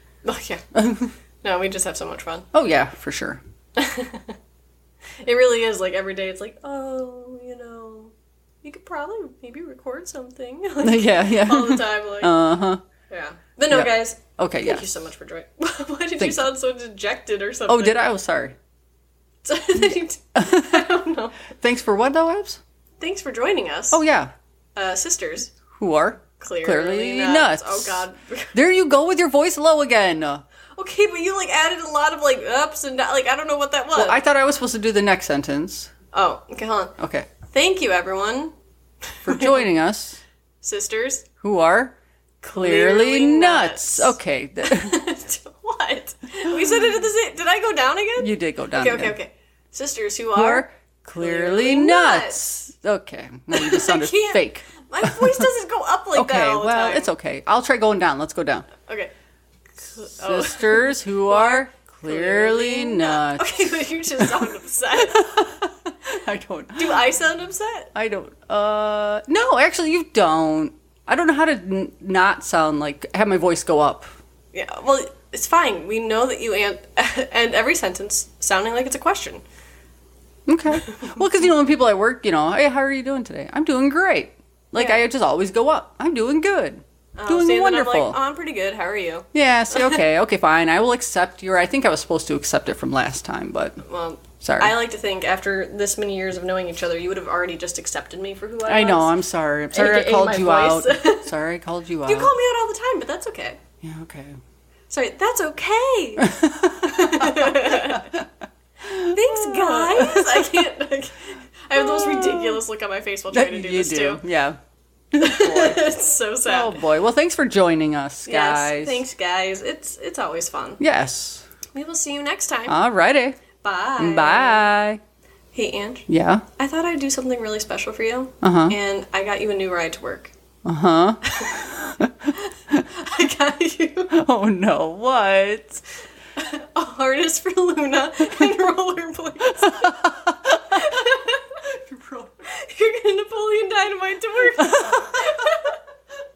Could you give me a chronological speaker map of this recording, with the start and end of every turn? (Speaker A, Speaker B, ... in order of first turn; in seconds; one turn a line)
Speaker A: 0.2-0.6
Speaker B: 0.7-1.1
Speaker A: 1.4-2.5
Speaker B: 2.5-3.4
Speaker A: 3.8-4.3
Speaker A: 5.2-12.3
Speaker B: 10.8-12.8
Speaker A: 13.1-18.0
Speaker B: 13.7-14.8
Speaker B: 16.2-16.4
Speaker B: 17.7-18.6
Speaker A: 19.4-21.4
Speaker B: 20.4-20.9
Speaker B: 21.6-22.6
Speaker A: 23.0-24.0
Speaker B: 23.9-24.3
Speaker A: 24.8-25.5
Speaker B: 25.7-30.4
Speaker A: 26.4-28.5
Speaker A: 30.8-34.2
Speaker B: 33.9-35.9
Speaker A: 36.1-38.5
Speaker B: 37.0-37.3
Speaker A: 39.1-39.6
Speaker B: 39.2-40.2
Speaker A: 40.6-41.3
Speaker B: 41.4-45.0
Speaker A: 42.4-50.7
Speaker B: 46.5-46.9
Speaker B: 48.2-49.1
Speaker B: 50.3-55.4
Speaker A: 51.2-52.4
Speaker A: 53.5-57.1
Speaker B: 56.1-58.7
Speaker A: 58.9-59.1
Speaker A: 59.8-65.2
Speaker B: 60.1-67.0
Speaker A: 66.8-67.9
Speaker B: 67.9-74.0
Speaker A: 74.5-79.4
Speaker B: 80.5-88.2
Speaker A: 84.8-85.0
Speaker A: 87.2-90.0
Speaker B: 89.3-93.8
Speaker A: 93.8-99.1
Speaker B: 94.4-94.8
Speaker B: 98.7-102.3
Speaker A: 99.7-101.3
Speaker A: 102.0-103.6
Speaker B: 103.8-104.4
Speaker A: 104.9-108.1
Speaker B: 106.2-108.3
Speaker B: 108.8-110.7
Speaker A: 109.0-114.2
Speaker B: 111.7-112.6
Speaker B: 113.3-114.6
Speaker B: 115.1-115.9
Speaker A: 115.2-116.8
Speaker B: 116.4-119.0
Speaker A: 118.2-120.8
Speaker B: 120.8-121.5
Speaker A: 121.7-122.8
Speaker B: 122.7-123.4
Speaker A: 123.6-124.7
Speaker B: 124.0-125.0
Speaker A: 125.5-130.3
Speaker B: 126.1-126.4
Speaker B: 128.4-128.8
Speaker B: 130.6-132.8
Speaker A: 131.2-131.7
Speaker A: 132.3-134.1
Speaker B: 134.1-135.8
Speaker A: 136.4-141.6
Speaker B: 139.5-141.1
Speaker B: 141.6-142.5
Speaker A: 142.4-145.8
Speaker B: 144.6-145.6